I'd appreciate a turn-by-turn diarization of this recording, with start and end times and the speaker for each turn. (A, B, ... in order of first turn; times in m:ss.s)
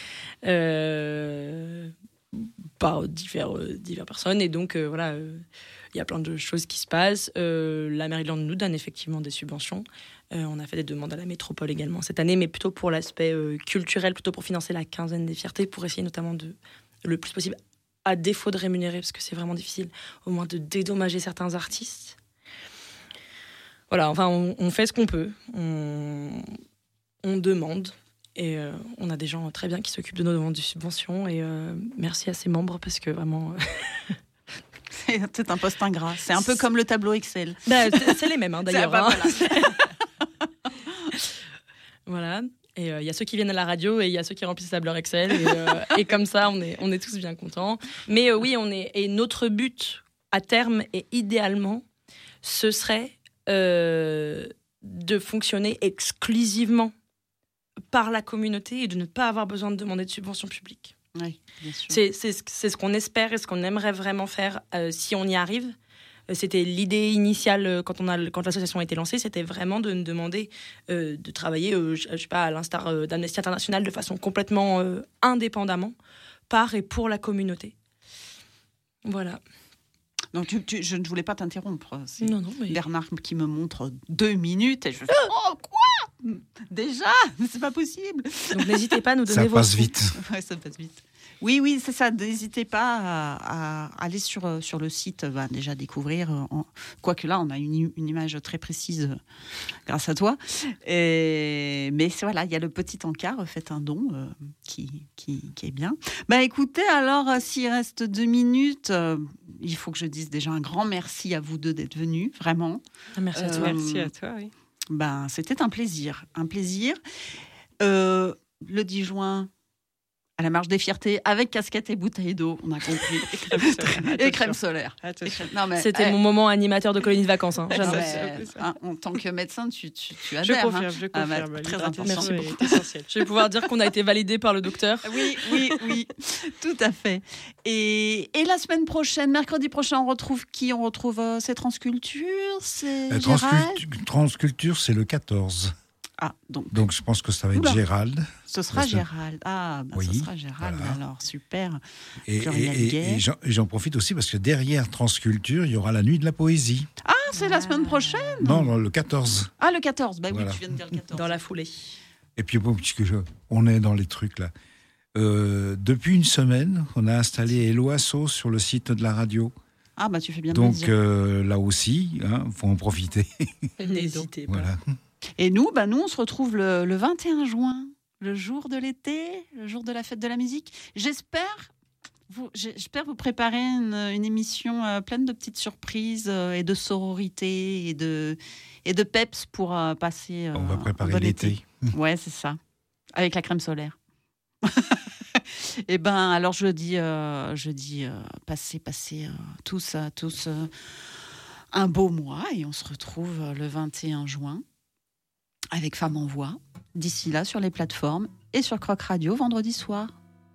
0:00.4-0:22.2 A
0:23.9-0:26.6 A
0:27.2-0:34.2 A
0:34.9-0:39.8 B
0:37.6-0:39.9 A
0:42.1-0:51.8 A
0:52.4-0:56.9 A
0:57.9-1:00.9 A
1:01.2-1:02.0 B
1:01.9-1:05.8 A
1:06.3-1:16.0 A
1:16.5-1:17.7 A
1:19.0-1:19.4 A
1:20.3-1:28.8 B
1:22.2-1:22.8 A
1:28.5-1:29.9 A
1:29.3-1:30.1 C
1:30.2-1:39.2 B
1:39.9-1:52.8 B
1:53.2-1:53.8 A
1:53.4-1:54.1 B
1:53.5-1:54.5 D
1:54.9-1:57.0 B
1:57.8-1:59.5 B
2:00.4-2:06.2 B
2:02.9-2:05.5 D
2:05.8-2:08.1 A
2:07.7-2:12.8 B
2:07.7-2:08.7 D
2:10.4-2:10.9 A
2:10.8-2:13.3 D
2:12.0-2:15.3 A
2:15.0-2:23.8 B
2:23.1-2:25.7 C
2:26.2-2:26.8 B
2:26.7-2:29.0 C
2:27.5-2:27.8 B
2:28.5-2:31.8 B
2:29.9-2:31.0 C
2:32.3-2:36.9 C
2:32.3-2:33.2 B
2:37.0-2:38.7 B
2:37.3-2:38.6 A
2:38.4-2:39.5 C
2:39.6-2:41.4 B
2:40.3-2:40.6 C
2:41.1-2:42.0 A
2:42.4-2:44.5 C
2:45.2-2:49.5 C
2:50.0-2:50.9 B
2:50.5-2:53.5 C
2:53.8-2:54.7 A
2:53.9-2:54.2 B
2:54.5-2:55.0 C
2:55.4-3:01.7 B
3:02.3-3:12.6 B
3:10.6-3:11.9 C
3:13.2-3:14.0 B
3:14.6-3:20.7 B
3:21.7-3:24.6 B
3:25.7-3:30.2 B